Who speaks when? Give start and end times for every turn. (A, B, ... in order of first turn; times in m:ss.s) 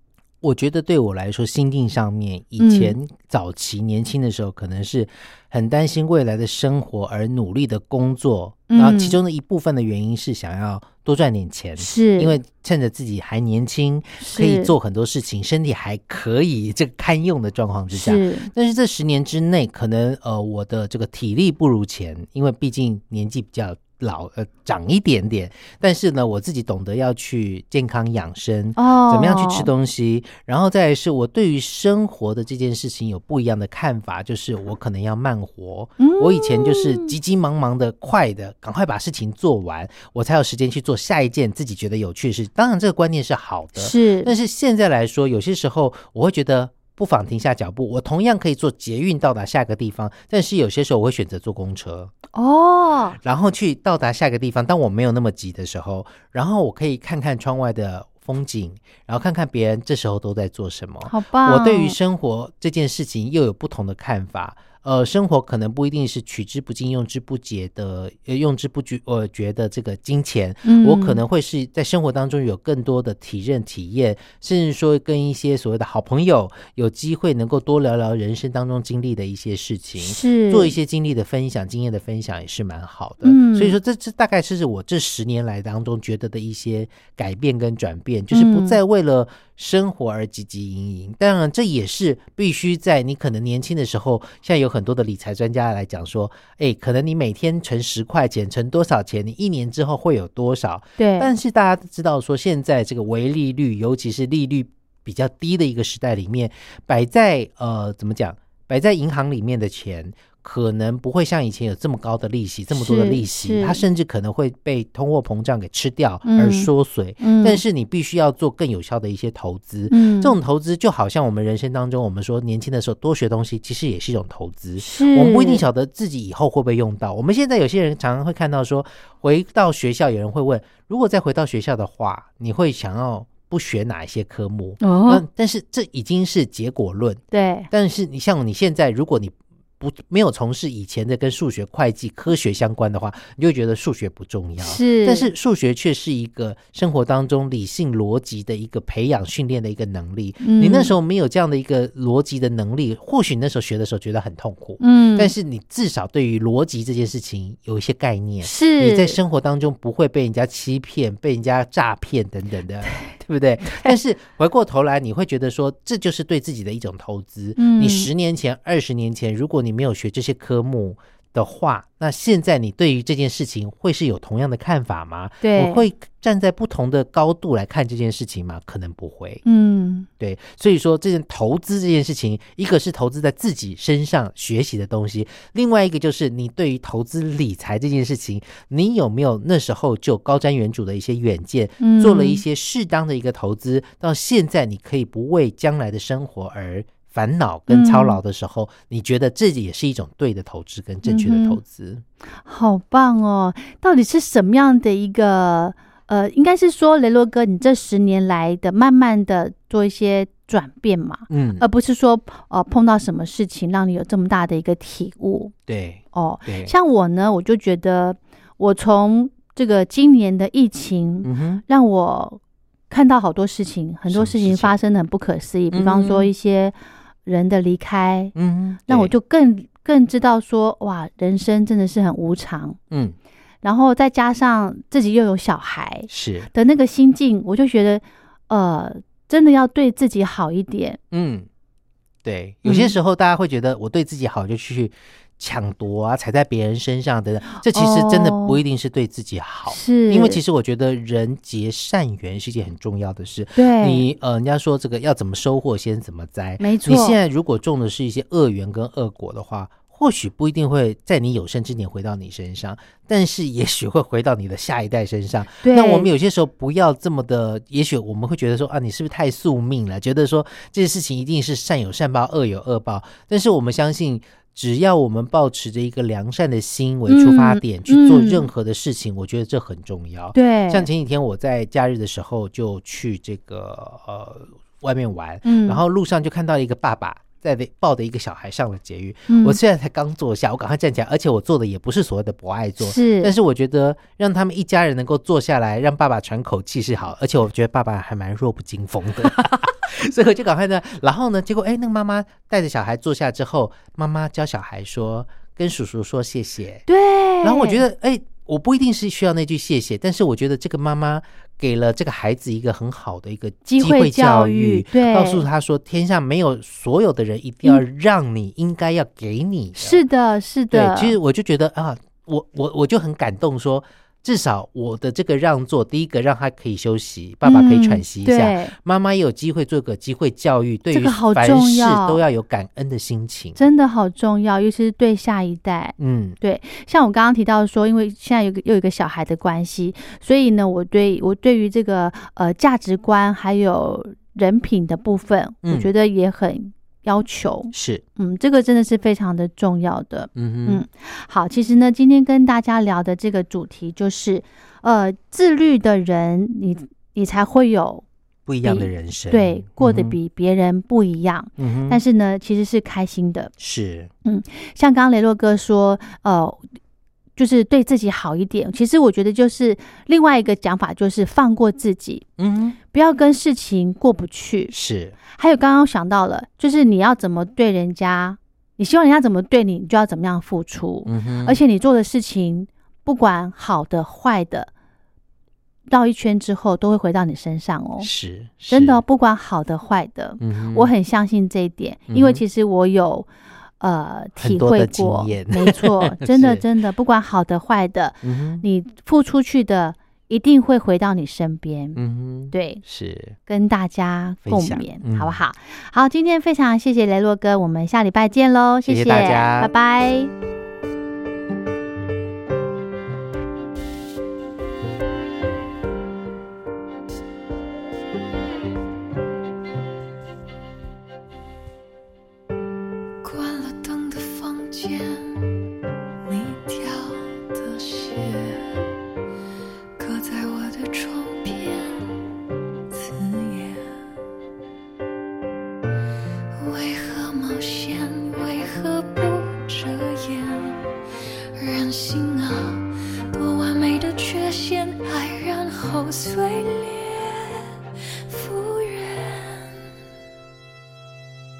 0:00.4-0:52.1 A
0:02.6-0:02.9 B
0:08.7-0:09.2 B
0:11.8-0:12.4 B
0:14.2-0:14.7 B
0:17.9-0:18.5 B
0:28.8-0:29.7 B
0:36.0-0:37.1 B
0:43.8-0:44.3 B
0:52.3-0:53.2 B
0:53.2-2:59.4 A
1:01.0-1:02.0 B
1:10.6-1:11.2 B
1:20.0-1:20.7 B
1:23.2-1:23.8 B
1:28.3-1:28.8 B
1:41.0-1:41.3 B
1:52.7-1:53.8 B
1:56.2-1:57.6 B
1:59.9-2:00.3 B
2:04.8-2:05.6 B
2:14.8-2:15.2 B
2:17.3-2:17.7 B
2:24.6-2:25.3 B
2:30.4-2:30.9 B
2:34.8-2:35.3 B
2:38.4-2:39.2 B
2:47.6-2:48.1 B
2:55.4-2:55.8 B
2:59.4-3:00.1 B
3:00.2-3:22.0 A
3:11.8-3:12.4 B
3:17.7-3:18.2 B
3:21.0-3:21.6 B
3:22.4-3:35.5 B
3:31.3-3:31.6 A
3:35.7-3:36.7 A
3:36.1-3:42.4 B
3:41.2-3:41.6 A
3:42.9-3:46.7 B
3:44.1-3:44.7 A
3:45.7-3:46.3 A
3:47.2-3:48.3 B
3:48.3-3:49.1 A
3:48.9-3:52.8 B
3:52.9-3:53.2 A
3:53.6-4:01.0 B
3:56.1-3:56.5 A
4:01.1-4:01.5 A
4:02.2-5:06.8 A
4:02.6-4:02.9 B
4:07.6-4:08.6 B
4:09.6-4:10.4 B
4:13.6-4:14.0 B
4:16.6-4:17.2 B
4:25.6-4:26.1 B
4:37.1-4:38.5 B
4:40.3-4:40.9 B
4:45.4-4:45.8 B
4:49.3-4:49.6 B
4:52.8-4:53.3 B
5:06.9-5:07.8 B
5:07.4-5:20.0 A
5:13.6-5:15.5 B
5:19.8-5:21.2 B
5:20.7-5:33.7 A
5:27.4-5:28.7 B
5:30.9-5:32.2 B
5:33.6-5:58.0 B
5:36.0-5:36.4 A
5:45.6-5:45.9 A
5:47.7-5:48.0 A
5:50.3-5:50.8 A
5:58.4-6:00.1 A
5:58.6-6:03.5 B
6:01.6-6:02.0 A
6:03.6-6:04.1 A
6:04.2-6:06.6 B
6:07.4-6:12.2 B
6:12.4-6:12.8 A
6:12.9-6:14.7 B
6:14.7-6:15.2 A
6:15.3-6:24.7 B
6:21.0-6:21.6 A
6:25.9-6:28.1 B
6:28.0-6:29.0 A
6:28.7-6:33.3 B
6:30.4-6:30.9 A
6:32.1-6:32.4 A
6:33.8-6:42.0 B
6:34.4-6:36.6 A
6:38.2-6:38.6 A
6:41.9-6:43.4 A
6:42.5-6:42.8 B
6:43.4-6:50.3 B
6:44.4-6:45.4 A
6:48.8-6:49.7 A
7:03.2-7:05.4 C
7:06.2-7:08.7 C
7:10.0-7:12.1 C
7:12.9-7:13.8 C
7:16.5-7:20.9 C
7:21.6-7:27.7 C
7:28.3-7:29.8 C